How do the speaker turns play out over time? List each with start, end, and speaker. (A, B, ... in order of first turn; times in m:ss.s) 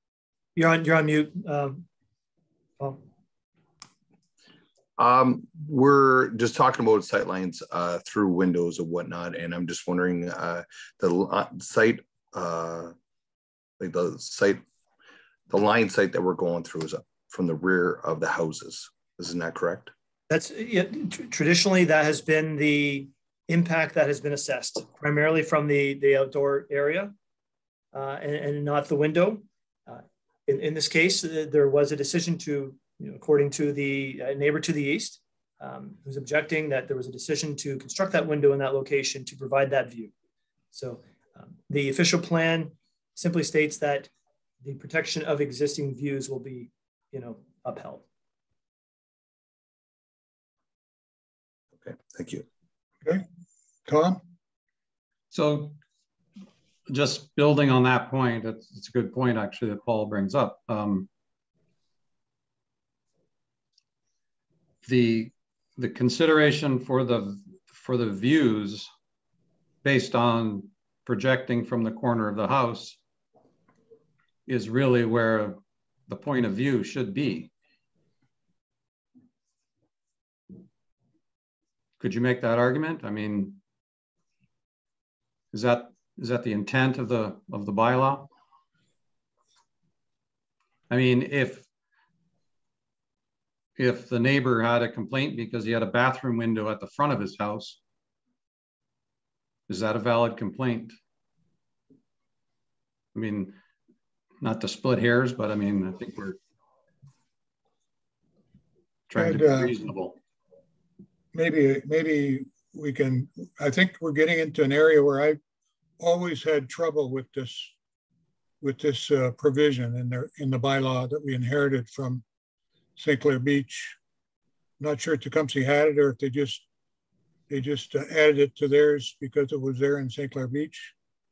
0:00.5-0:01.8 A
0:02.8-0:03.0 A
0:05.0-0:12.9 B
0:13.8-0:14.6 B
0:15.5-0:19.9 B
0:20.3-0:27.1 A
0:27.9-0:40.1 A
0:40.7-0:44.1 A
0:44.6-0:48.0 A
0:51.8-0:52.4 B
0:53.8-0:54.2 C
0:55.3-0:55.8 D
0:56.9-1:01.1 D
1:04.8-1:08.9 D
1:09.8-1:13.0 D
1:14.5-1:17.5 D
1:22.0-1:23.6 D
1:25.5-1:28.3 D
1:30.9-1:31.6 D
1:33.8-1:37.8 D
1:39.7-1:41.0 D
1:43.1-1:43.6 D
1:44.4-1:46.4 D
1:49.1-1:50.2 D
1:49.2-1:49.8 C
1:51.3-1:55.4 C
1:56.0-1:57.7 C
1:58.6-2:02.2 C
2:03.0-2:04.0 C
2:04.8-2:06.6 C
2:07.5-2:10.9 C